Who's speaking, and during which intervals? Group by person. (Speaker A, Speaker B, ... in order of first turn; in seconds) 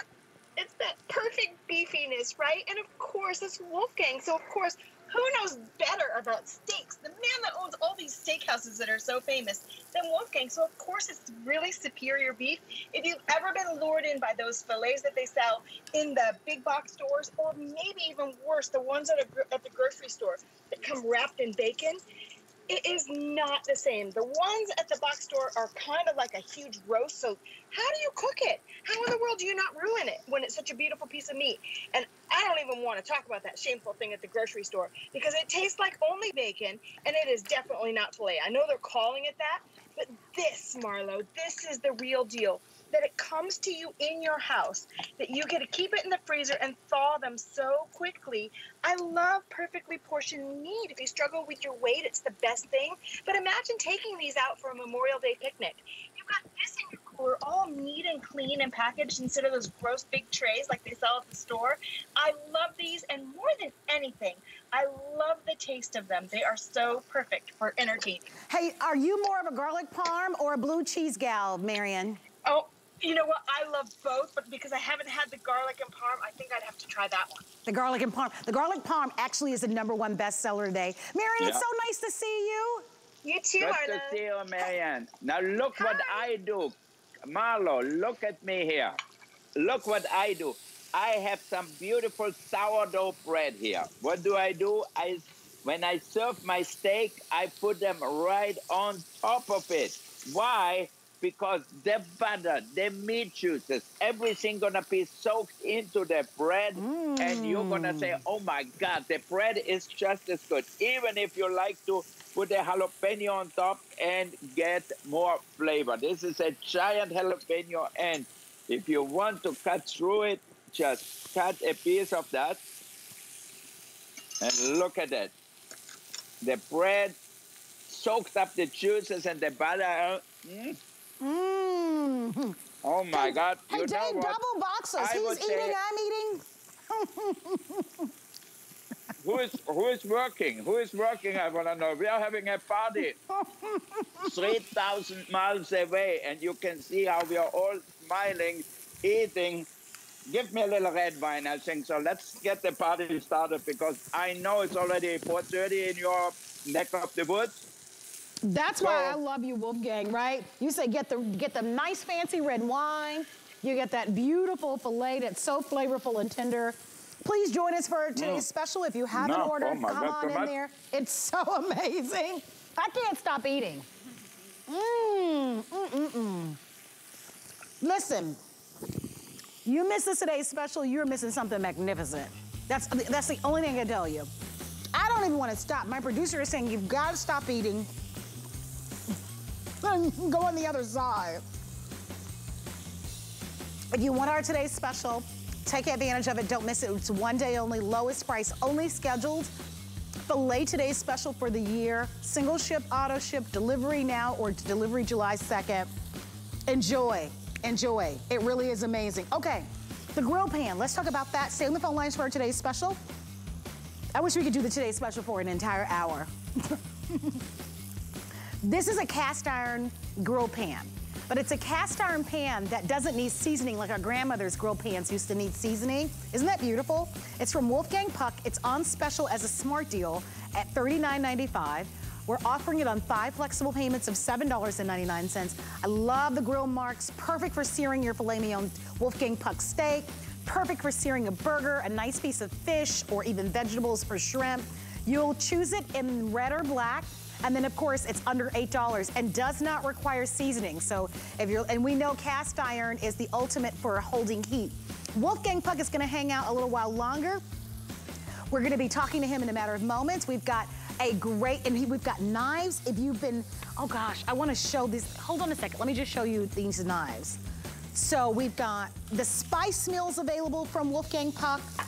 Speaker A: 0.6-22.0, 22.7-68.3, 72.5-77.5, 83.2-84.2, 85.8-86.3
Speaker B: 68.5-72.2, 77.7-82.8, 106.8-108.2, 131.2-132.6, 133.1-138.1, 143.3-144.5, 158.4-173.9, 174.7-176.6, 177.8-178.4, 179.7-184.3, 184.9-187.9, 189.8-191.4, 193.9-199.5, 200.3-205.9, 206.7-213.0, 214.1-217.4, 218.6-257.4, 258.5-267.4, 267.9-271.6
Speaker C: 83.6-89.0, 89.6-122.7, 124.4-125.3, 126.4-127.2, 127.9-130.8, 132.8-134.4, 135.0-135.8, 139.2-143.2, 144.2-149.7, 150.3-157.6, 158.8-159.2, 168.2-168.5, 169.1-170.5